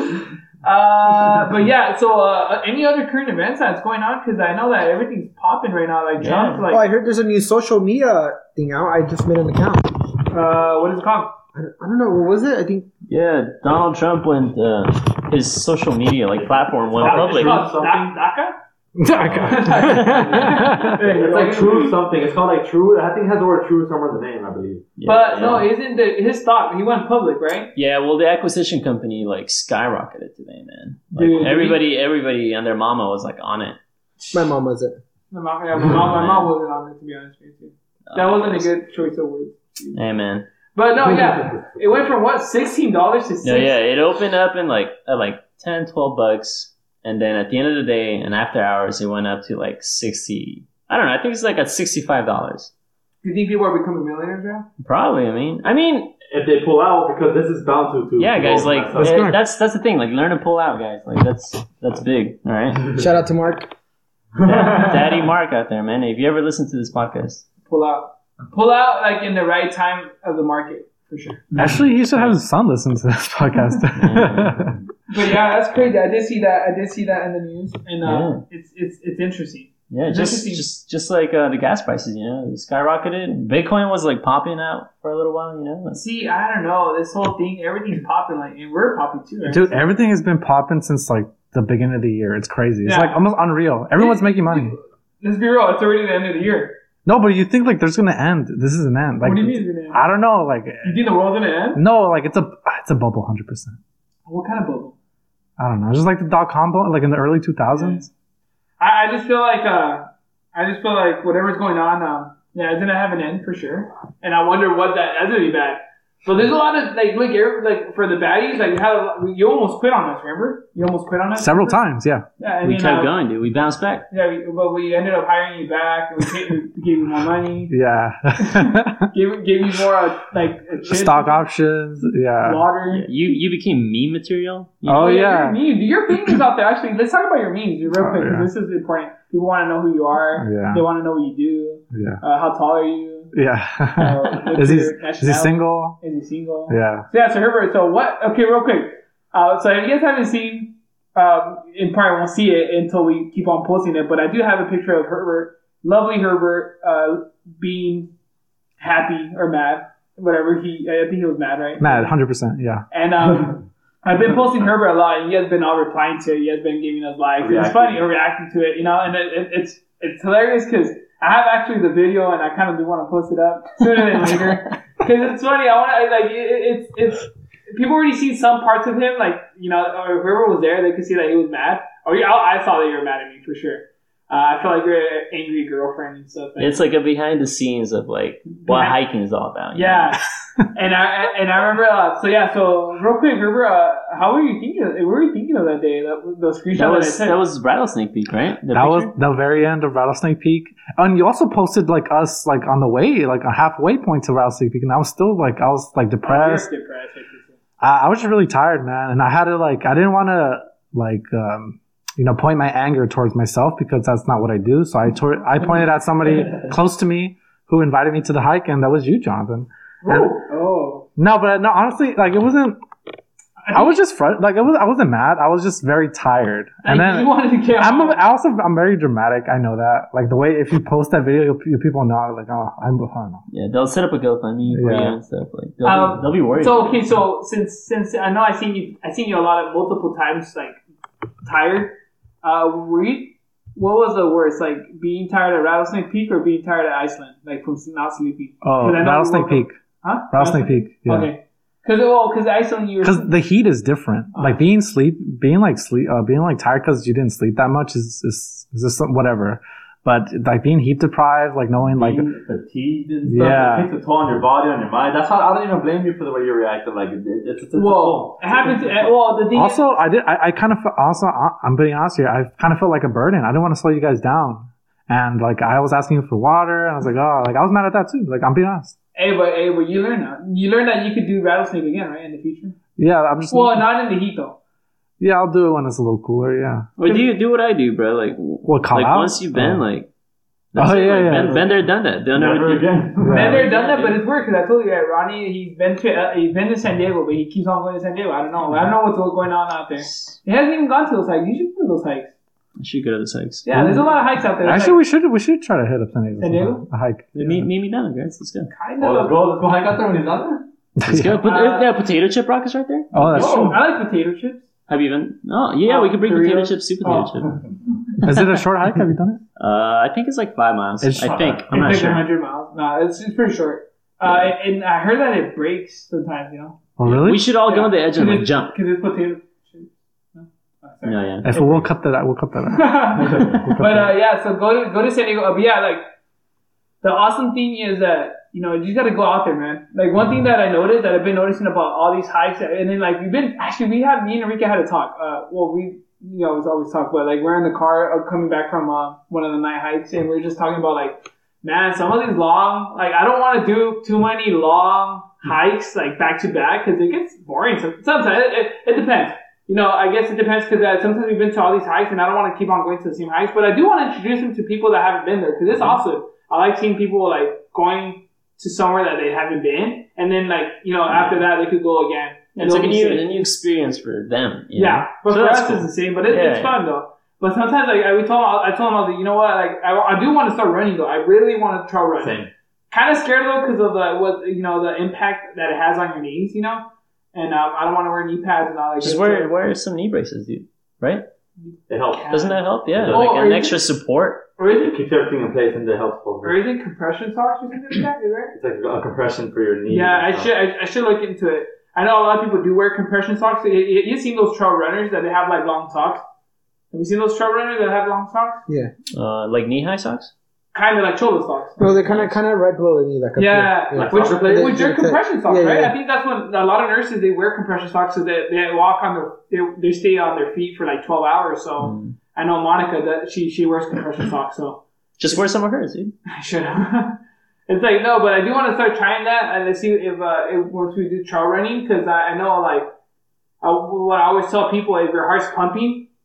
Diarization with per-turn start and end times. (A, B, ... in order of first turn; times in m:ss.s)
0:00.6-0:06.8 A
0:06.2-0:06.6 B
0:06.7-0:09.9 C
0:10.3-0:11.4 A
0:11.5-0:12.9 C
0:13.1-0:17.6 B
0:16.3-0:18.2 D
0:17.0-0:18.6 A
0:19.0-0:21.0 E
0:19.1-0:20.1 D
0:19.4-0:22.0 A
0:19.6-0:20.6 B
0:20.9-0:25.6 D
0:25.0-0:25.7 B
0:25.0-0:27.8 A
0:27.8-0:33.8 B
0:31.1-0:31.8 A
0:34.3-0:35.0 C
0:35.3-0:40.0 A
0:35.9-0:36.5 B
0:38.1-0:38.7 B
0:39.9-0:40.5 B
0:40.7-0:43.8 A
0:43.4-0:52.7 B
0:53.2-0:54.7 A
0:54.8-0:56.2 B
0:56.3-0:59.2 D
0:58.2-1:03.0 B
0:59.0-0:59.4 E
1:03.0-1:03.7 C
1:04.4-1:05.2 D
1:04.4-1:07.5 B
1:07.6-1:11.5 A
1:11.6-1:14.8 E
1:14.0-1:14.8 B
1:15.1-1:20.7 A
1:18.0-1:18.4 B
1:19.9-1:26.0 B
1:25.9-1:29.8 A
1:29.5-1:34.8 E
1:32.8-1:33.2 A
1:34.0-1:36.8 A
1:37.1-1:41.1 E
1:39.2-1:40.0 A
1:40.8-1:41.8 A
1:41.7-1:43.8 E
1:44.3-1:45.0 A
1:45.6-1:48.1 E
1:47.7-1:48.1 A
1:48.8-2:01.8 A
2:01.4-2:02.3 E
2:02.4-2:03.1 A
2:02.6-2:04.1 B
2:04.1-2:07.7 A
2:07.7-2:09.1 E
2:08.4-2:11.5 A
2:10.9-2:12.6 E
2:12.4-2:13.4 A
2:12.9-2:14.9 B
2:14.8-2:15.6 E
2:14.8-2:23.3 A
2:18.0-2:18.5 E
2:20.4-2:20.9 E
2:21.9-2:22.2 E
2:23.3-2:26.0 E
2:24.0-2:38.1 A
2:26.7-2:27.1 E
2:38.8-2:42.1 A
2:41.8-2:42.9 E
2:42.9-3:06.8 A
2:47.4-2:48.0 D
3:06.6-3:10.1 B
3:08.6-3:09.0 A
3:09.7-3:17.4 A
3:16.7-3:19.1 B
3:18.7-3:26.7 E
3:26.2-3:27.6 A
3:27.8-3:40.3 E
3:40.0-3:41.1 A
3:41.2-3:42.8 E
3:43.6-3:44.0 A
3:43.7-3:53.4 E
3:46.8-3:48.2 A
3:53.5-3:57.0 B
3:54.7-3:55.2 E
3:55.8-4:00.8 A
4:01.4-4:13.3 A
4:08.6-4:09.8 E
4:10.3-4:11.3 E
4:13.0-4:22.3 E
4:14.3-4:14.7 A
4:21.8-4:29.1 D
4:23.3-4:23.9 E
4:27.7-4:29.9 A
4:29.5-4:39.0 E
4:39.2-4:42.8 A
4:43.0-4:43.9 E
4:43.5-4:44.6 A
4:45.2-4:46.9 E
4:47.0-4:50.1 B
4:47.0-4:47.3 A
4:48.6-4:49.8 E
4:50.7-4:54.2 B
4:50.8-4:51.6 E
4:51.3-4:53.7 D
4:53.2-4:53.7 E
4:53.3-5:02.4 A
5:00.1-5:00.4 B
5:02.8-5:03.7 B
5:03.6-5:05.0 A
5:03.7-5:07.7 E
5:06.4-5:06.8 A
5:07.4-5:08.7 B
5:08.7-5:09.4 A
5:09.0-5:10.7 D
5:11.0-5:11.4 E
5:11.1-5:13.1 B
5:11.4-5:11.9 A
5:13.1-5:13.8 E
5:13.2-5:14.7 A
5:13.3-5:13.8 D
5:14.9-5:17.5 B
5:15.8-5:17.4 A
5:18.2-5:19.4 E
5:19.6-5:22.3 B
5:21.0-5:21.6 E
5:21.3-5:22.1 D
5:21.7-5:26.8 A
5:24.2-5:24.5 B
5:27.0-5:27.4 E
5:27.0-5:28.8 B
5:27.5-5:31.8 A
5:31.0-5:31.5 B
5:31.4-5:34.2 E
5:32.7-5:36.0 A
5:37.0-6:13.3 A
6:12.6-6:16.8 B
6:14.8-6:29.5 A
6:22.2-6:22.5 D
6:29.0-6:31.3 B
6:31.6-6:33.8 A
6:31.9-6:33.3 D
6:32.3-6:34.5 B
6:34.6-6:35.0 A
6:34.6-6:36.6 D
6:36.4-6:38.6 A
6:38.6-6:40.5 D
6:39.9-6:46.2 A
6:46.9-6:48.6 A
6:48.7-6:48.9 C
6:49.1-6:50.3 B
6:50.7-6:52.0 A
6:51.8-6:56.0 C
6:51.8-6:52.3 B
6:53.4-7:05.5 A
6:53.9-6:54.8 D
7:01.8-7:02.2 B
7:05.2-7:06.1 B
7:06.3-7:07.2 A
7:07.7-7:12.9 A
7:13.6-7:16.1 A